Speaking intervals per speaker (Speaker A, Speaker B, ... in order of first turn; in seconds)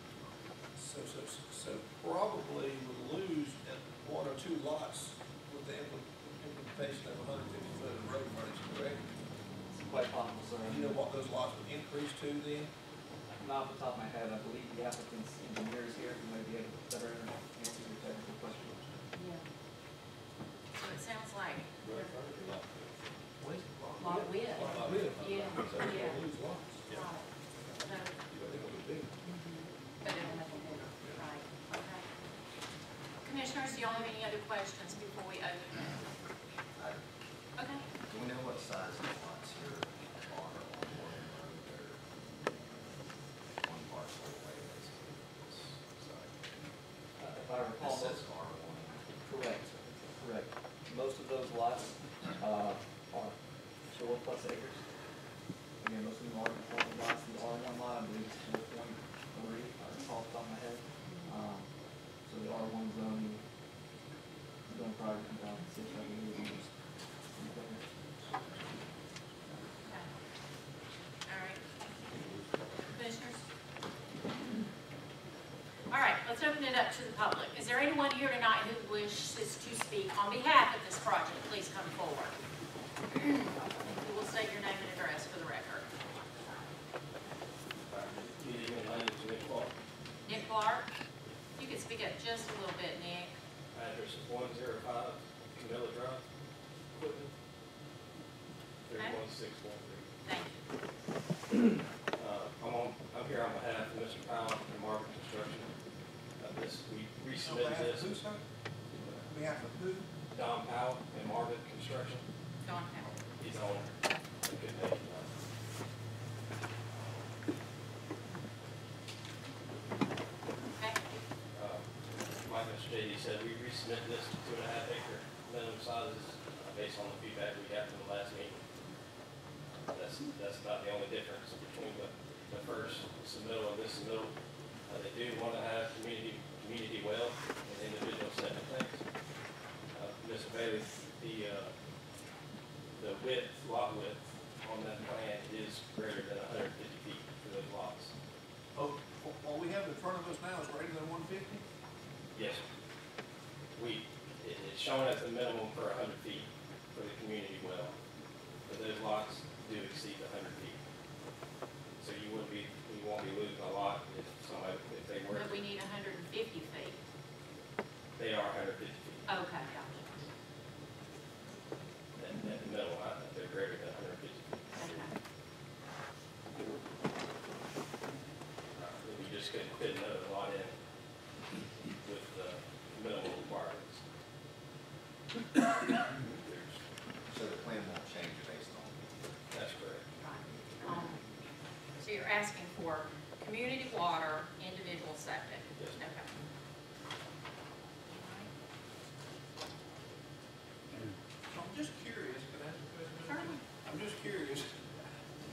Speaker A: 0.8-9.0, 10.6-12.7, 21.8-22.5, 23.4-27.0, 27.6-29.1, 30.9-31.2, 107.4-108.4, 109.2-110.1, 148.7-151.6, 201.5-204.9
Speaker B: 9.7-10.9, 13.4-19.0, 47.2-48.2, 49.2-49.7, 50.2-53.4, 53.9-54.8, 55.8-61.7, 62.2-63.4, 64.7-66.7, 67.3-67.9
Speaker C: 19.1-19.4, 20.7-22.1, 24.0-26.2, 26.9-27.2, 27.8-28.1, 29.2-32.0, 33.2-36.0, 37.6-37.8, 69.8-70.1, 71.3-71.6, 72.9-73.4, 75.9-82.3, 83.1-85.8, 90.2-90.8, 91.6-93.3, 100.2-100.6, 112.6-113.1, 165.3-167.0, 169.3-170.1, 174.7-175.1, 190.2-191.2, 192.0-196.3, 198.1-198.5, 203.2-203.6
Speaker D: 22.6-22.9, 38.1-46.7, 47.8-49.8, 186.2-189.4
Speaker E: 87.9-89.7, 93.7-96.2, 97.0-97.3, 98.8-100.0, 102.1-105.7, 106.4-108.2, 110.3-112.3, 113.4-113.9, 114.4-115.3, 121.5-128.6, 129.8-134.3, 134.9-139.0, 139.9-141.7, 143.0-148.1, 152.3-152.6, 153.8-157.9, 158.7-160.8, 162.0-165.6, 168.2-169.3, 172.2-175.1, 178.7-180.8, 182.0-184.0, 189.5-190.1